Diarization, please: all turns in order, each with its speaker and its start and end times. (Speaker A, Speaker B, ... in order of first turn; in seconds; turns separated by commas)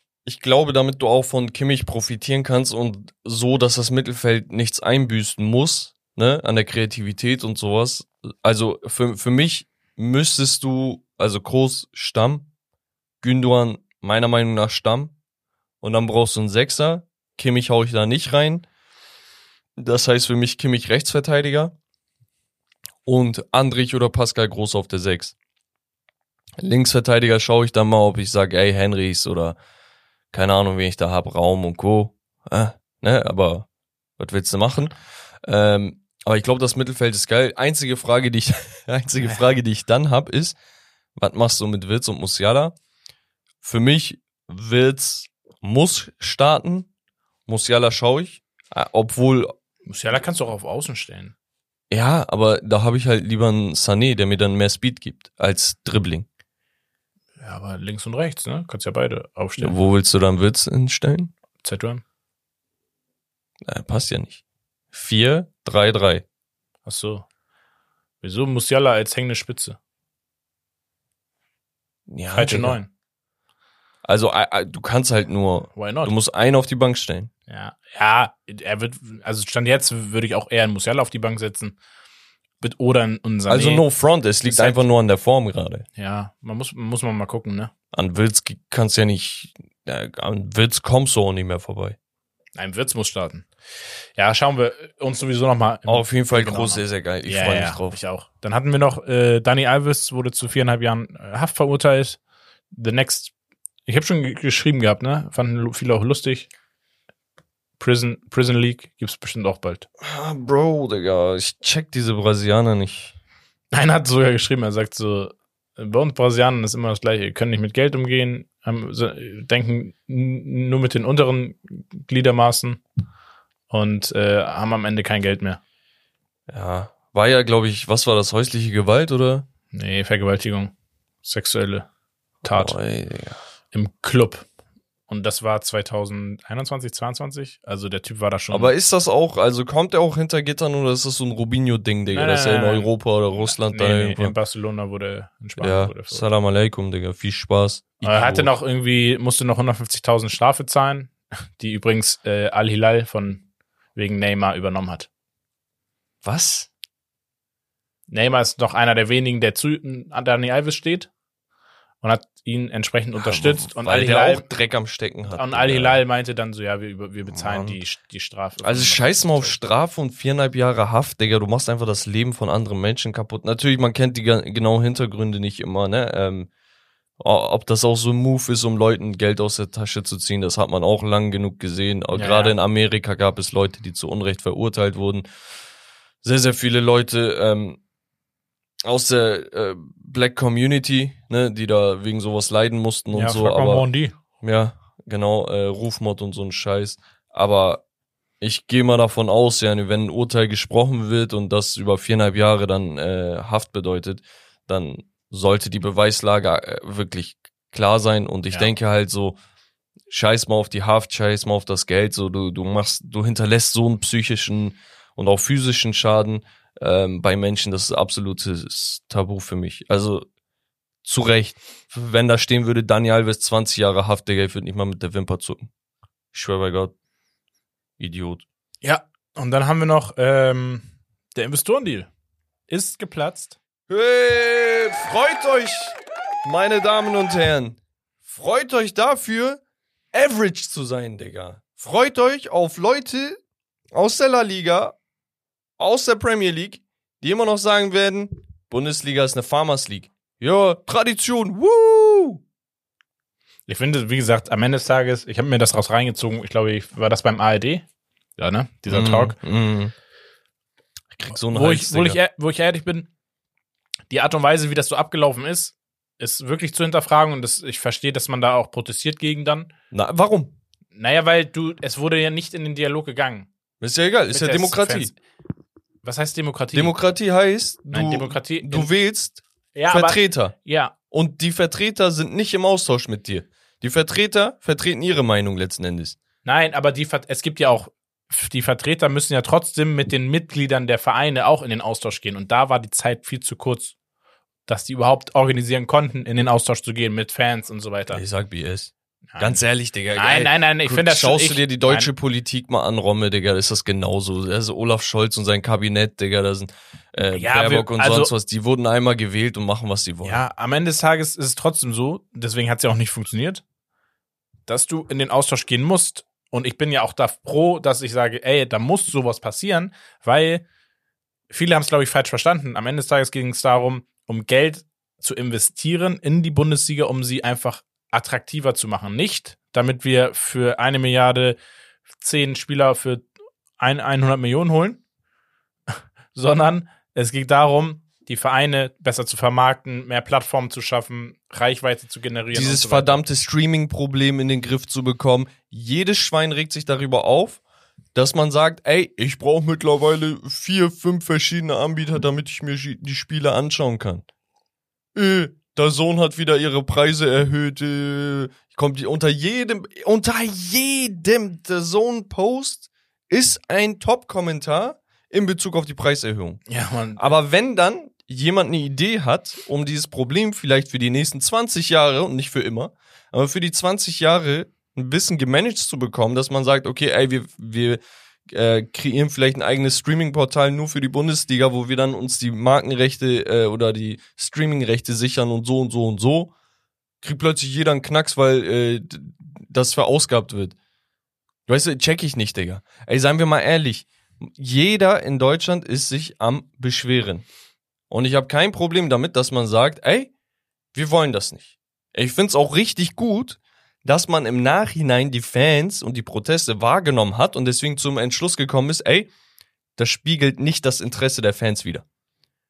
Speaker A: 0.2-12.5, Speaker A: 13.2-15.1, Speaker A: 15.8-18.6, Speaker A: 19.8-21.7, Speaker A: 23.1-25.4, Speaker A: 26.6-29.6, Speaker A: 30.3-33.7, Speaker A: 34.2-40.6, Speaker A: 41.2-42.8, Speaker A: 43.6-46.9, Speaker A: 47.5-49.5, Speaker B: 49.9-51.3, Speaker A: 51.9-56.3, Speaker B: 57.4-59.8, Speaker A: 59.6-61.3, Speaker B: 61.6-62.0, Speaker A: 63.6-64.4, Speaker A: 64.9-66.2, Speaker B: 66.9-67.3, Speaker B: 68.2-69.8, Speaker A: 72.1-72.8, Speaker B: 72.3-72.9, Speaker A: 74.0-77.3, Speaker B: 75.8-76.1, Speaker B: 77.5-81.8, Speaker B: 82.6-83.9, Speaker A: 83.5-85.8, Speaker B: 84.4-84.8, Speaker B: 86.0-87.7, Speaker A: 87.9-92.0, Speaker B: 92.6-93.5, Speaker B: 94.2-102.2, Speaker A: 95.9-98.0, Speaker B: 102.7-103.3, Speaker B: 103.9-106.5, Speaker B: 107.8-109.9, Speaker A: 110.0-113.1, Speaker B: 113.7-122.8, Speaker B: 123.7-125.6, Speaker A: 126.5-129.4, Speaker B: 129.7-131.9, Speaker B: 132.4-132.8, Speaker A: 132.5-133.4, Speaker B: 133.7-134.5, Speaker B: 135.1-138.7, Speaker A: 138.5-144.3, Speaker B: 142.1-142.9, Speaker B: 143.5-146.2, Speaker A: 145.6-148.5, Speaker B: 148.0-153.4, Speaker B: 154.0-155.1, Speaker A: 156.2-156.7, Speaker B: 158.1-161.1, Speaker B: 162.0-164.5, Speaker A: 163.2-166.0, Speaker B: 165.3-169.6, Speaker A: 167.3-167.8, Speaker A: 168.6-176.5, Speaker A: 177.2-185.2, Speaker B: 182.1-182.6, Speaker A: 186.2-187.8, Speaker A: 188.8-193.8, Speaker B: 193.1-194.2, Speaker A: 194.4-197.8, Speaker A: 198.4-209.4, Speaker A: 210.1-220.2, Speaker A: 221.0-225.7, Speaker A: 226.3-226.9, Speaker A: 228.0-228.4, Speaker B: 228.8-232.1, Speaker B: 232.7-233.6, Speaker A: 233.9-239.6, Speaker A: 240.1-243.4, Speaker A: 243.9-245.0, Speaker A: 245.8-252.4, Speaker B: 253.7-257.9, Speaker B: 258.4-259.4, Speaker A: 258.9-259.9, Speaker A: 261.1-262.2, Speaker B: 261.5-263.1, Speaker B: 264.1-269.7, Speaker A: 269.9-270.5, Speaker B: 270.9-273.5, Speaker A: 273.8-275.1, Speaker B: 274.3-275.2, Speaker B: 276.0-276.9, Speaker A: 276.7-280.6, Speaker B: 277.9-278.9, Speaker B: 279.8-280.9, Speaker A: 281.1-286.2, Speaker B: 286.4-293.9, Speaker B: 294.7-298.2, Speaker A: 298.1-310.4, Speaker B: 299.3-299.6, Speaker B: 300.1-302.1, Speaker B: 307.3-308.3, Speaker B: 310.2-313.6, Speaker B: 314.7-320.6, Speaker B: 321.5-331.6, Speaker B: 332.2-333.3, Speaker B: 333.8-335.0, Speaker B: 336.3-343.2, Speaker A: 342.5-347.6, Speaker A: 348.1-354.2, Speaker A: 355.1-366.6, Speaker B: 366.7-367.3, Speaker A: 367.2-386.5, Speaker A: 387.2-390.8, Speaker A: 391.7-397.4, Speaker A: 398.1-400.3, Speaker A: 400.9-409.3, Speaker A: 410.0-412.1